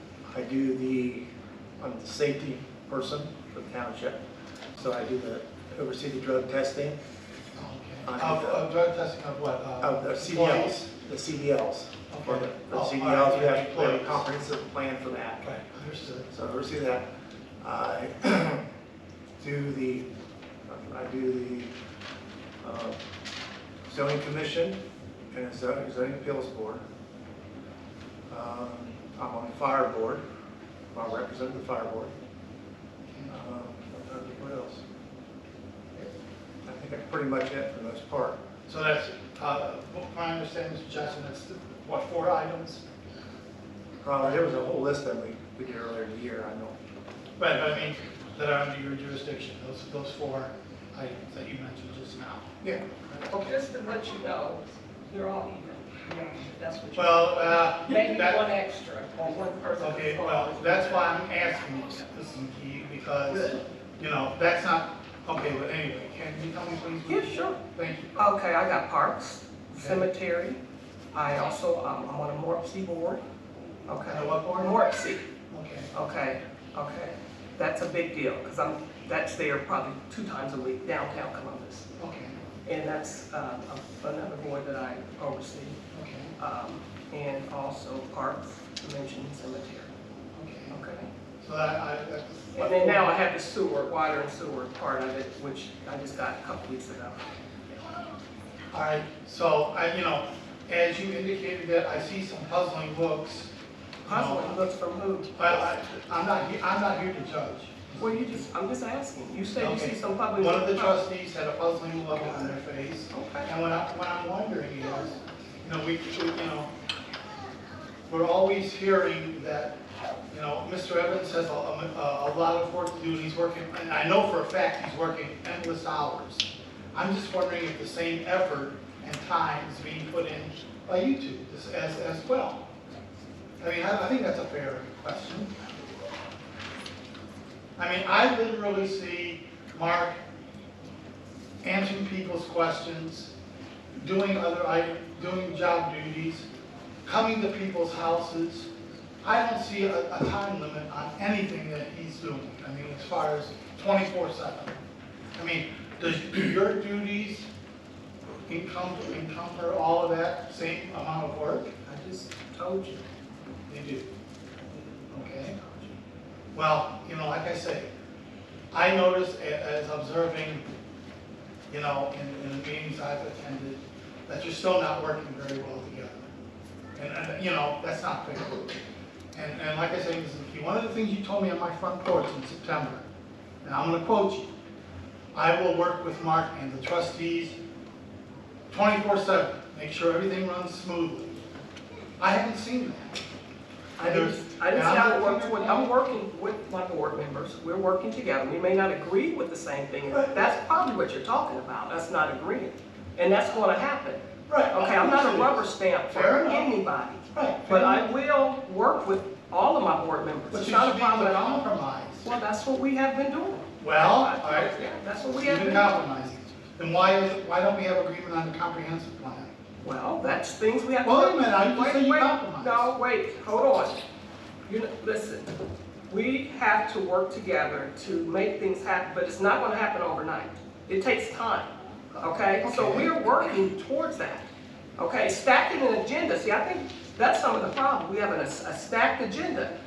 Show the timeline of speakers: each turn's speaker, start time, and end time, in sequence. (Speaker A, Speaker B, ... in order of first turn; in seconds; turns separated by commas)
Speaker A: 0.3-1.3, Speaker A: 1.8-4.2, Speaker A: 4.8-7.0, Speaker B: 7.5-10.8, Speaker A: 8.1-8.6, Speaker A: 9.8-15.5, Speaker B: 12.1-14.3, Speaker B: 15.4-16.3, Speaker A: 16.3-17.1, Speaker A: 17.6-18.6, Speaker A: 19.4-20.1, Speaker A: 20.7-21.7, Speaker A: 22.6-23.0, Speaker A: 23.9-24.8, Speaker A: 25.3-26.8, Speaker A: 28.3-30.2, Speaker A: 30.9-32.1, Speaker A: 33.3-34.8, Speaker A: 36.7-38.4, Speaker B: 38.7-42.8, Speaker A: 44.0-46.8, Speaker B: 44.2-44.5, Speaker B: 47.4-52.5, Speaker B: 53.1-53.6, Speaker C: 53.3-61.2, Speaker B: 57.0-58.4, Speaker B: 59.8-68.1, Speaker C: 63.3-63.6, Speaker C: 67.1-67.6, Speaker C: 68.2-70.6, Speaker B: 69.8-70.0, Speaker C: 71.1-73.2, Speaker C: 73.9-75.3, Speaker B: 74.0-74.8, Speaker B: 75.5-75.9, Speaker C: 75.9-81.9, Speaker B: 82.0-82.4, Speaker C: 82.7-85.8, Speaker B: 85.9-86.3, Speaker C: 86.4-89.9, Speaker B: 90.3-90.8, Speaker C: 90.7-91.1, Speaker B: 91.4-93.1, Speaker C: 92.5-97.3, Speaker B: 98.7-103.5, Speaker B: 104.0-104.6, Speaker C: 104.0-105.6, Speaker B: 105.4-108.5, Speaker C: 108.0-111.0, Speaker B: 109.6-116.7, Speaker C: 113.1-113.5, Speaker B: 118.1-119.8, Speaker B: 120.3-132.7, Speaker B: 133.6-135.5, Speaker B: 137.8-140.2, Speaker B: 141.6-143.3, Speaker B: 144.0-146.5, Speaker B: 147.1-148.7, Speaker B: 149.2-154.8, Speaker B: 155.4-157.5, Speaker B: 158.5-161.7, Speaker C: 161.9-163.0, Speaker B: 163.7-164.1, Speaker C: 164.7-165.9, Speaker B: 165.1-165.6, Speaker B: 166.5-167.9, Speaker B: 168.7-170.7, Speaker B: 171.7-176.3, Speaker B: 176.9-178.7, Speaker B: 179.3-183.0, Speaker B: 183.6-184.5, Speaker B: 185.3-187.6, Speaker B: 188.7-191.4, Speaker B: 192.2-193.2, Speaker C: 194.0-211.7, Speaker B: 194.0-195.9, Speaker B: 200.1-200.4, Speaker B: 204.5-208.2, Speaker B: 210.5-212.4, Speaker C: 212.2-216.0, Speaker B: 213.8-214.8, Speaker B: 215.3-219.5, Speaker C: 219.8-224.0, Speaker B: 221.0-222.9, Speaker C: 224.7-225.5, Speaker C: 226.1-239.7, Speaker B: 232.6-233.1